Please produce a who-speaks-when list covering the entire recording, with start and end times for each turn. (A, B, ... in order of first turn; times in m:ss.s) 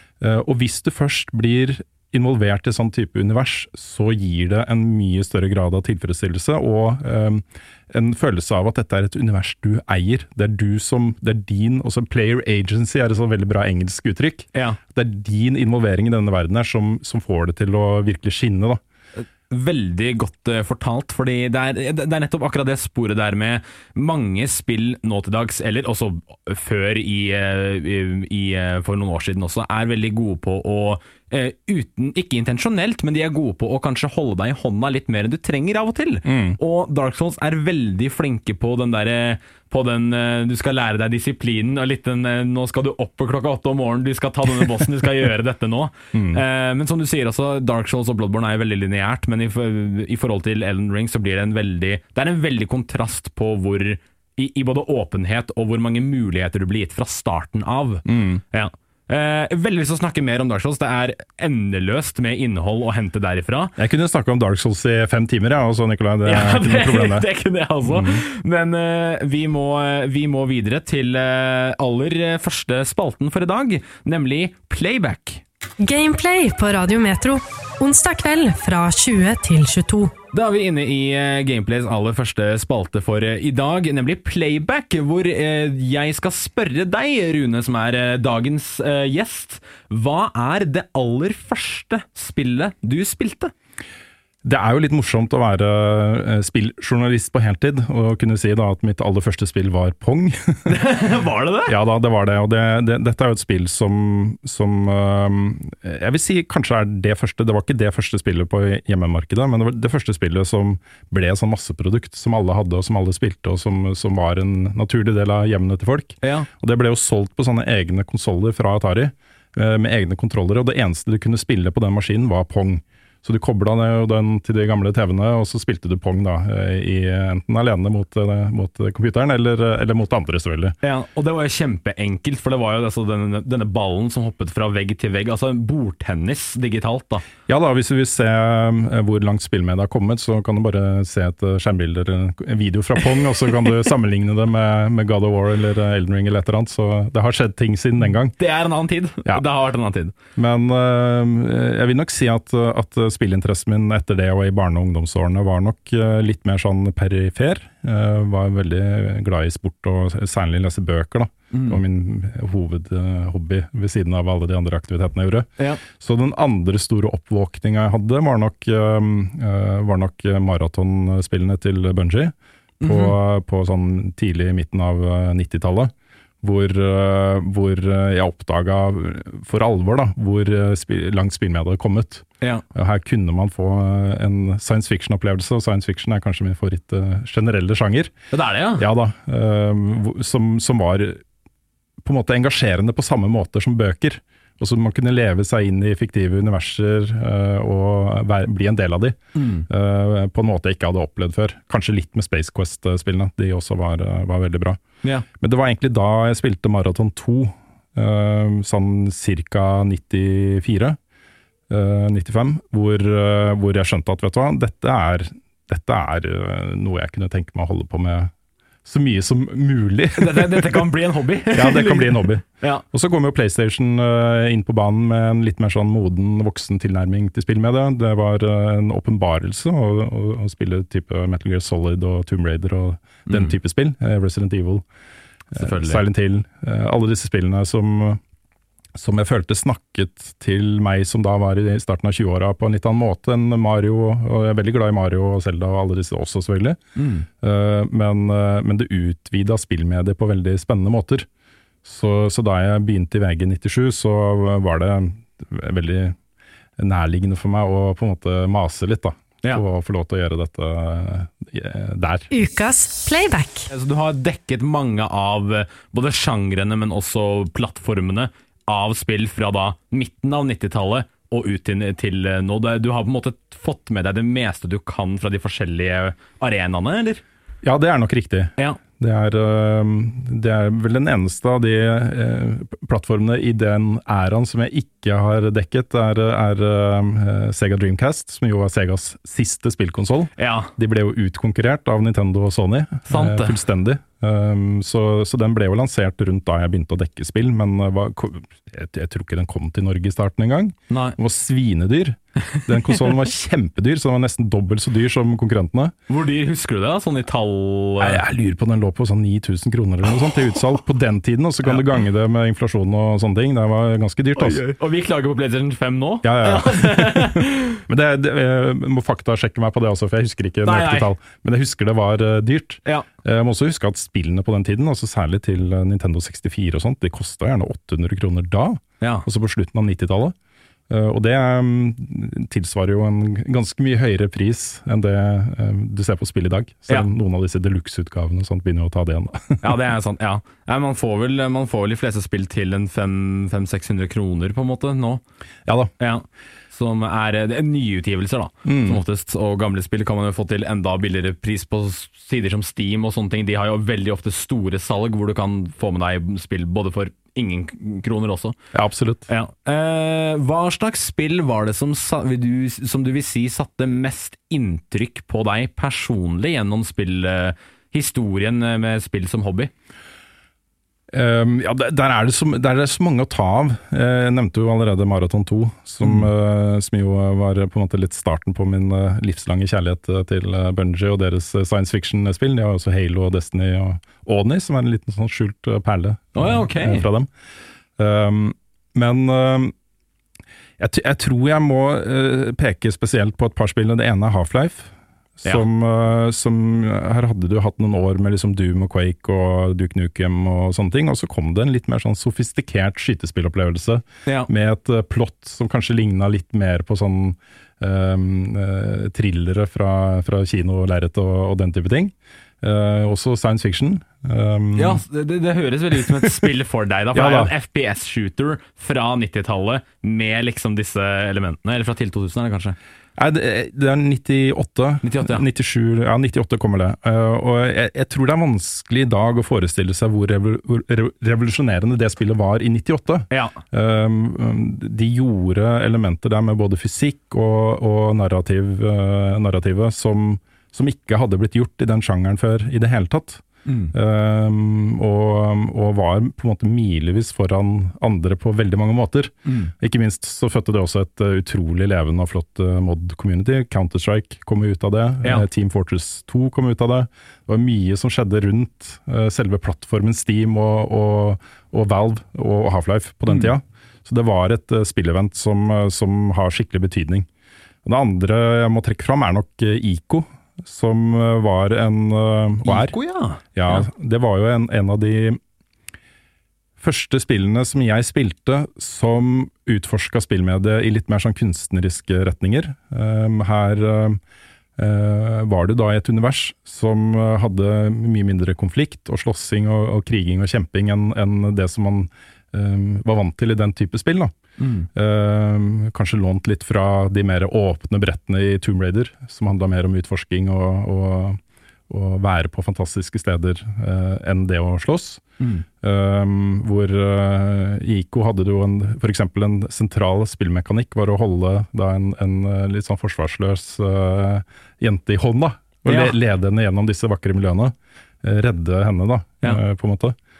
0:00.2-0:18.8 A
0:14.5-0:14.8 B
0:19.2-1:03.8 B
0:36.2-0:36.6 A
0:46.1-0:46.4 A
0:58.0-0:58.4 A
1:03.8-1:07.3 A
1:06.2-1:15.4 B
1:07.8-1:08.2 A
1:15.8-1:20.1 C
1:20.3-1:33.5 B
1:34.4-1:40.7 A
1:40.6-1:41.7 B
1:41.7-2:10.8 A
1:56.2-1:56.5 B
2:10.8-2:17.3 B
2:17.5-2:28.3 A
2:28.4-2:30.1 B
2:30.4-3:08.1 A
2:41.5-2:41.8 B
2:52.8-2:53.1 B
3:08.3-3:08.9 B
3:08.8-3:11.2 A
3:12.0-3:24.8 A
3:19.3-3:19.7 B
3:25.4-3:31.0 A
3:31.7-3:38.3 A
3:38.8-3:40.9 A
3:40.2-3:42.8 B
3:41.5-3:54.8 A
3:53.3-3:53.5 B
3:55.5-3:58.2 A
3:55.6-3:56.0 B
3:59.0-4:06.8 A
4:07.0-4:07.3 B
4:07.4-4:11.3 A
4:11.8-4:16.2 A
4:16.8-4:22.3 A
4:22.3-4:23.7 C
4:23.7-4:37.2 B
4:37.6-5:05.9 A
4:50.4-4:50.7 B
4:53.1-4:53.6 B
5:00.9-5:01.2 B
5:06.1-5:08.2 B
5:08.0-5:14.6 A
5:14.4-5:17.8 B
5:16.2-5:30.3 A
5:20.6-5:21.1 B
5:29.0-5:29.2 B
5:30.9-5:39.8 A
5:39.6-5:45.2 B
5:45.6-5:45.9 A
5:46.0-5:58.6 B
5:48.6-5:49.0 A
5:58.7-5:59.3 A
5:59.3-6:09.7 B
6:11.1-6:27.3 A
6:16.0-6:16.3 B
6:26.3-6:27.0 B
6:28.0-6:29.7 A
6:30.8-6:55.0 A
6:54.8-7:02.8 B
6:57.1-6:57.5 A
7:03.2-7:47.3 A
7:05.0-7:05.4 B
7:13.3-7:13.6 B
7:23.6-7:23.9 B
7:29.4-7:29.7 B
7:47.8-7:52.9 A
7:52.6-7:53.9 B
7:53.5-7:55.4 A
7:56.8-8:04.2 A
8:04.8-8:14.3 A
8:14.6-8:14.9 B
8:14.9-8:25.2 A
8:25.4-8:25.6 B
8:25.8-8:40.2 A
8:35.9-8:36.1 B